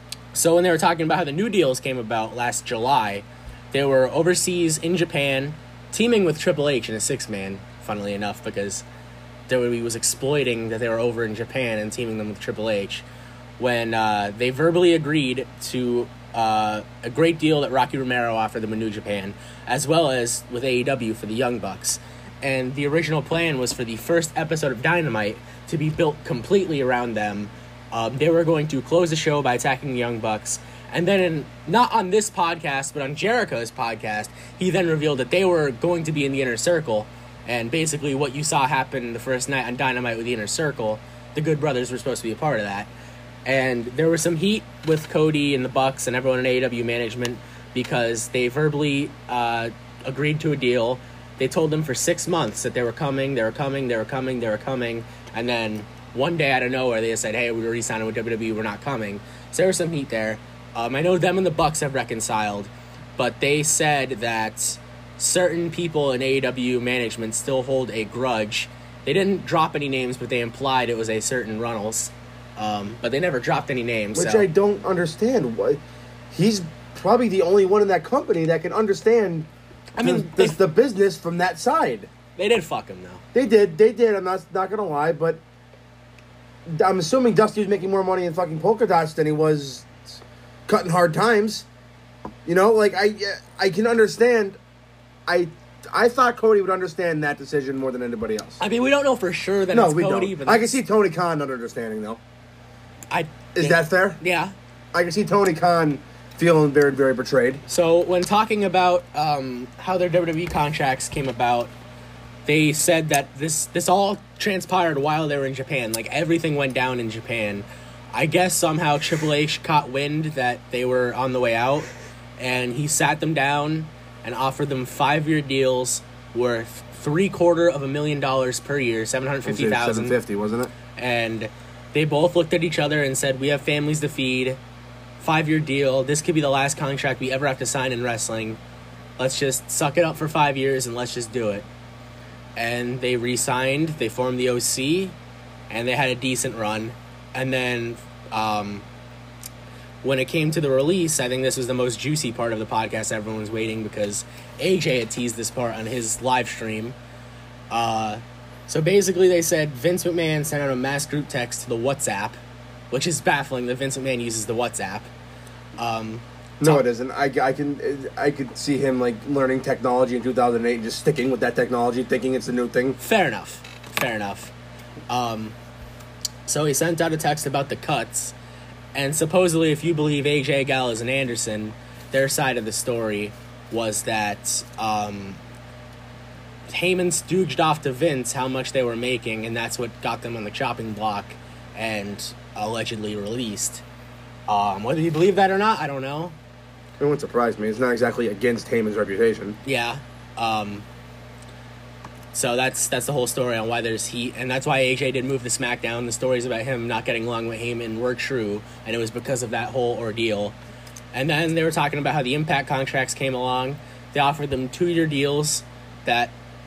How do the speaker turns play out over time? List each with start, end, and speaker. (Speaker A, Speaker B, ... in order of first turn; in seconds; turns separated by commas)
Speaker A: 0.3-8.9, Speaker A: 9.5-13.1, Speaker A: 13.6-42.9, Speaker A: 43.5-74.5, Speaker B: 74.1-79.5, Speaker A: 80.0-80.6, Speaker B: 80.0-82.1, Speaker A: 82.4-83.2, Speaker B: 83.3-85.4, Speaker B: 86.7-91.7, Speaker B: 92.5-94.6, Speaker B: 95.3-98.6, Speaker A: 98.6-100.8, Speaker B: 99.7-102.2, Speaker A: 103.1-104.5, Speaker B: 103.5-104.2, Speaker B: 104.9-107.6, Speaker A: 107.7-111.7, Speaker A: 112.5-130.2, Speaker B: 129.5-130.7, Speaker A: 130.9-134.6, Speaker A: 135.2-138.6, Speaker A: 139.2-141.7, Speaker A: 142.6-145.2, Speaker A: 145.7-148.9, Speaker A: 150.0-157.0, Speaker A: 157.7-162.4, Speaker A: 162.9-165.1, Speaker A: 165.8-166.8, Speaker B: 166.6-173.0, Speaker A: 173.0-174.5, Speaker A: 175.1-175.6, Speaker A: 176.5-178.3, Speaker A: 178.9-185.4, Speaker A: 186.7-193.8, Speaker A: 194.5-196.4, Speaker B: 197.0-199.6, Speaker A: 199.7-200.9, Speaker A: 202.3-210.6, Speaker A: 211.1-216.3